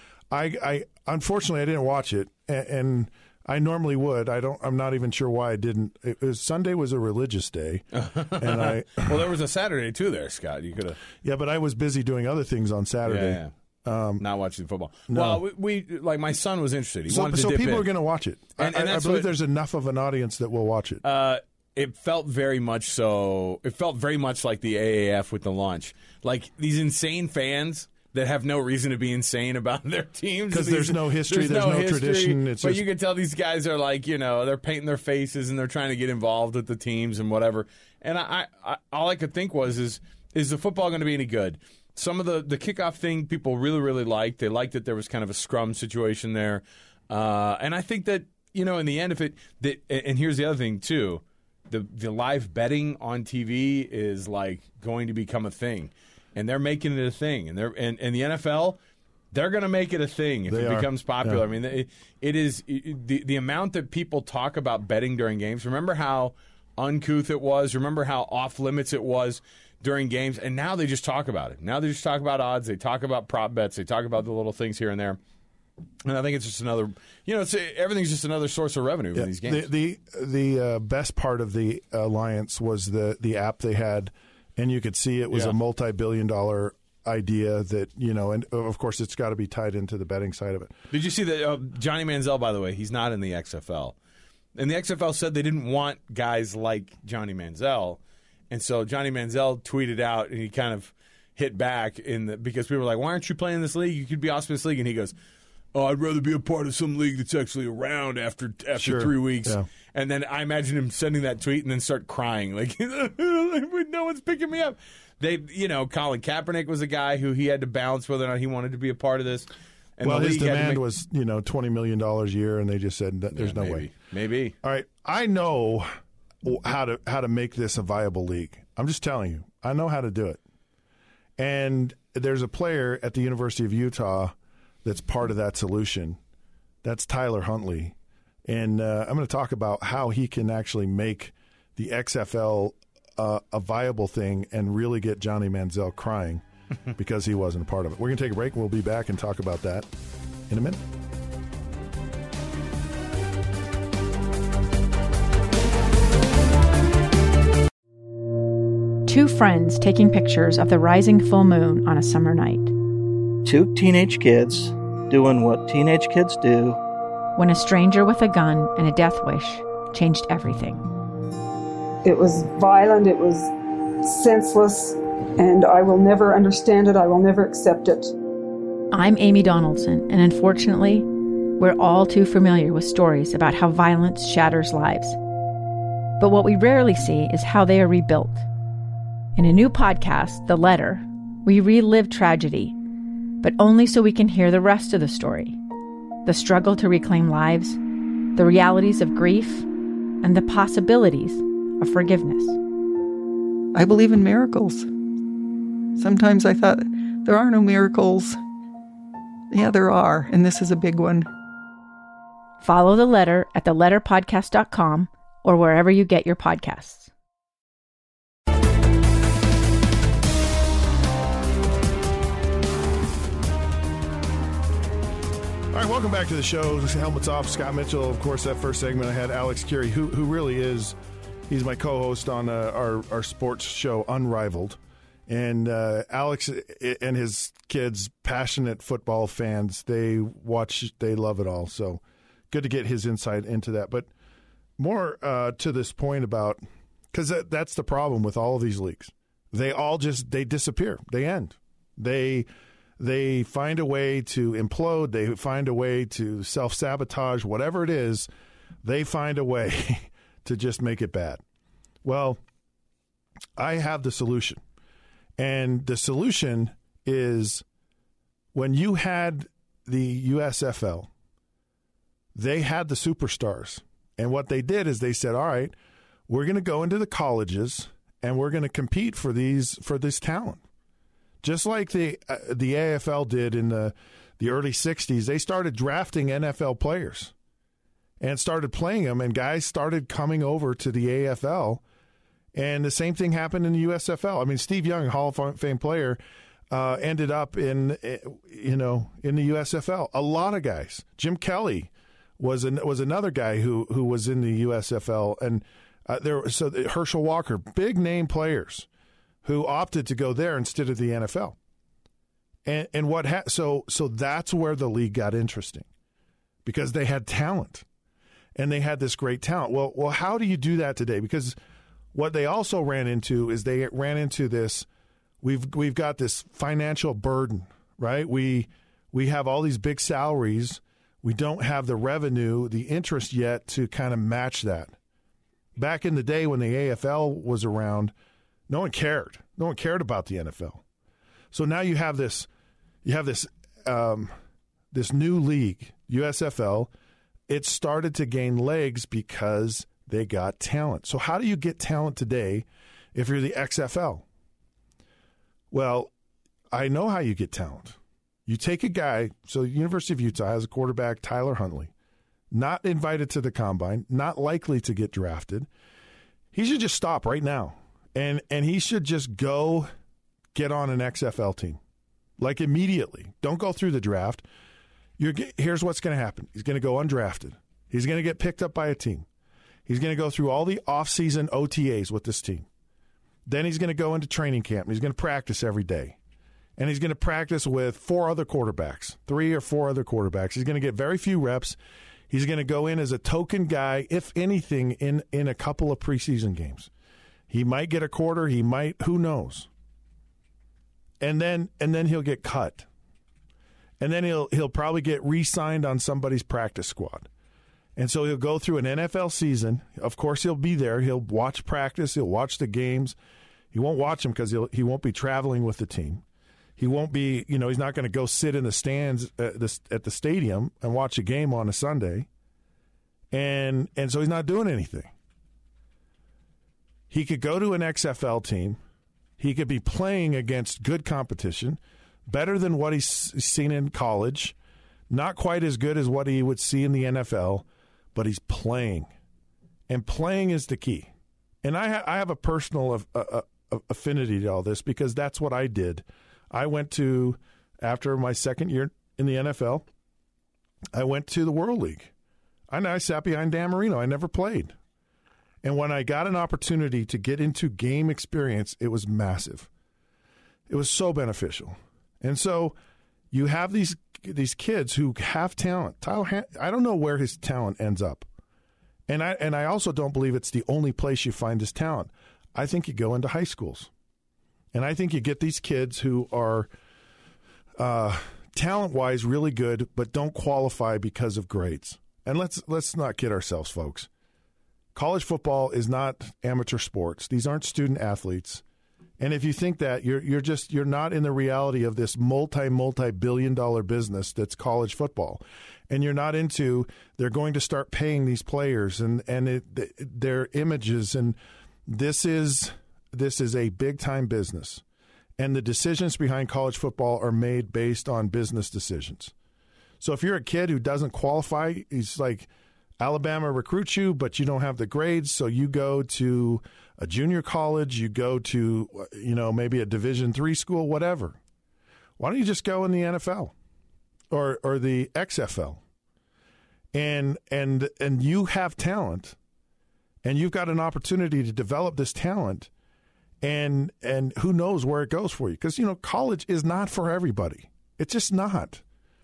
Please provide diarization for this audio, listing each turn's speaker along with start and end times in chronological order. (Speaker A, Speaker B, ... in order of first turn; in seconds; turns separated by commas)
Speaker A: 0.3-7.8, Speaker B: 7.9-11.0, Speaker A: 8.4-9.3, Speaker A: 11.2-14.2, Speaker B: 13.1-13.5, Speaker B: 14.2-17.9, Speaker A: 15.1-15.4, Speaker A: 17.1-21.0, Speaker B: 18.6-19.3, Speaker B: 21.0-58.8, Speaker A: 30.5-32.8, Speaker B: 59.3-75.2, Speaker A: 60.5-61.4, Speaker B: 76.0-79.7, Speaker A: 79.1-90.7, Speaker B: 90.9-93.9, Speaker B: 94.5-98.0, Speaker B: 98.5-105.1, Speaker B: 105.7-120.8, Speaker A: 108.7-109.7, Speaker A: 120.0-123.9, Speaker B: 123.3-124.5, Speaker A: 124.6-125.9, Speaker A: 126.4-130.4, Speaker A: 131.4-136.2, Speaker A: 136.8-137.9, Speaker A: 138.4-149.9, Speaker A: 150.5-150.8, Speaker C: 159.1-162.7, Speaker D: 163.4-166.8, Speaker C: 167.3-170.8, Speaker E: 172.0-173.5, Speaker E: 174.0-178.1, Speaker C: 178.9-181.1, Speaker C: 181.6-185.2, Speaker C: 186.2-188.4, Speaker C: 189.3-192.8, Speaker C: 193.4-195.6, Speaker C: 196.2-197.8, Speaker C: 198.3-199.7, Speaker C: 200.2-202.6, Speaker F: 203.7-204.9, Speaker F: 205.9-208.4, Speaker F: 209.5-211.3, Speaker C: 212.6-217.1, Speaker A: 225.7-231.0, Speaker A: 231.5-244.1, Speaker A: 244.8-246.6, Speaker A: 247.1-252.5, Speaker A: 253.0-258.3, Speaker A: 258.8-261.4, Speaker A: 262.0-262.4, Speaker A: 263.6-264.6, Speaker A: 265.4-267.6, Speaker A: 268.5-271.1, Speaker A: 272.3-275.7, Speaker A: 276.3-280.6, Speaker A: 281.4-287.3, Speaker A: 288.2-291.8, Speaker A: 292.5-296.2, Speaker A: 296.7-308.9, Speaker A: 309.4-311.6, Speaker A: 312.6-315.9, Speaker A: 316.6-317.8, Speaker A: 318.5-321.6, Speaker A: 322.1-324.9, Speaker A: 325.4-334.9, Speaker A: 335.8-338.1, Speaker A: 338.7-340.8, Speaker A: 341.5-342.5, Speaker A: 343.0-344.3, Speaker A: 344.9-346.9, Speaker A: 347.5-354.2, Speaker A: 355.7-356.1, Speaker A: 356.7-361.9, Speaker A: 362.5-365.7, Speaker A: 366.5-369.9, Speaker A: 370.5-371.8, Speaker A: 372.4-374.4, Speaker A: 375.2-379.2, Speaker A: 379.9-382.7, Speaker A: 383.4-386.2, Speaker A: 386.8-391.8, Speaker A: 392.3-396.9, Speaker A: 397.5-399.7, Speaker A: 401.2-402.9, Speaker A: 404.0-407.3, Speaker A: 407.9-413.1, Speaker A: 413.7-416.2, Speaker A: 416.8-422.3, Speaker A: 423.3-425.1, Speaker A: 427.1-428.8, Speaker A: 429.4-434.5, Speaker A: 435.1-439.1, Speaker A: 439.9-441.1, Speaker A: 441.6-449.9, Speaker A: 450.9-452.1, Speaker A: 452.7-454.7, Speaker A: 455.6-459.7, Speaker A: 460.7-462.8, Speaker A: 463.3-468.3, Speaker A: 469.1-473.9, Speaker A: 474.7-476.7, Speaker A: 477.8-484.1, Speaker A: 484.9-488.6, Speaker A: 489.2-504.8, Speaker A: 505.4-509.3, Speaker A: 510.0-521.4, Speaker A: 522.2-523.5, Speaker A: 524.3-525.8, Speaker A: 526.9-529.4, Speaker A: 530.2-532.7, Speaker A: 533.4-538.8